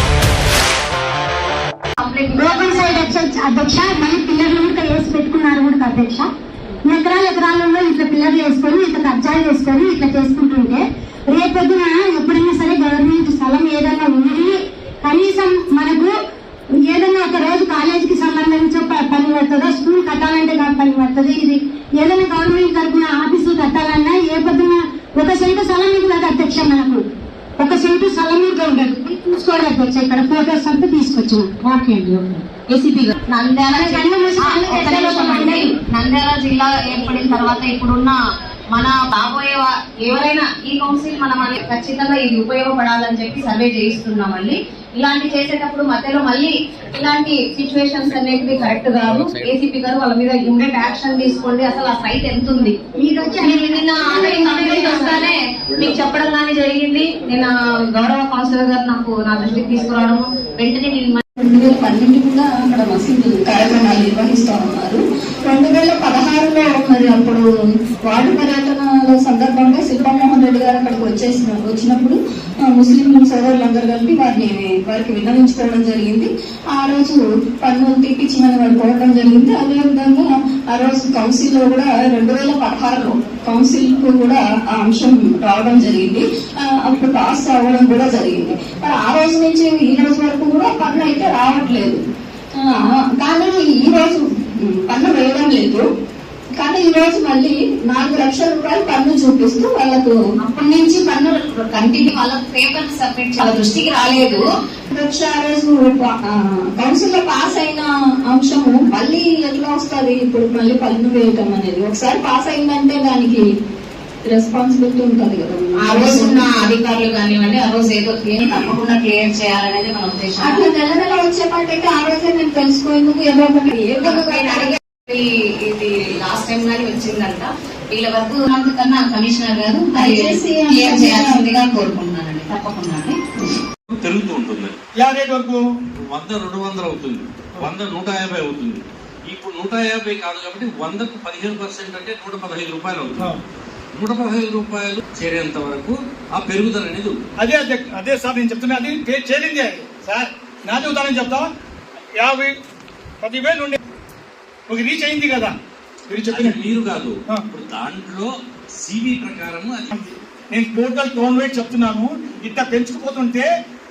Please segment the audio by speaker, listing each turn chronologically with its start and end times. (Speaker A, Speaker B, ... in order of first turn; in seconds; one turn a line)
Speaker A: 2.0-3.1
Speaker B: 2.3-6.3
Speaker B: 6.9-16.1
Speaker B: 16.8-27.0
Speaker B: 27.6-33.1
Speaker A: 33.3-38.1
Speaker B: 33.7-35.7
Speaker A: 38.7-52.8
Speaker B: 53.0-55.3
Speaker A: 53.3-61.2
Speaker C: 61.4-67.4
Speaker C: 68.1-92.0
Speaker C: 92.6-95.8
Speaker C: 96.6-100.2
Speaker A: 100.4-104.4
Speaker C: 104.9-106.1
Speaker C: 106.8-113.4
Speaker C: 114.3-116.5
Speaker A: 115.9-120.7
Speaker C: 120.4-124.8
Speaker A: 124.0-133.5
Speaker C: 129.9-131.6
Speaker D: 133.9-134.7
Speaker E: 135.0-135.6
Speaker D: 136.1-143.3
Speaker D: 143.9-147.2
Speaker E: 147.4-151.4
Speaker E: 152.2-152.5
Speaker E: 153.2-153.8
Speaker E: 154.7-155.5
Speaker E: 156.1-156.6
Speaker D: 156.2-158.3
Speaker D: 158.8-159.9
Speaker E: 159.9-163.5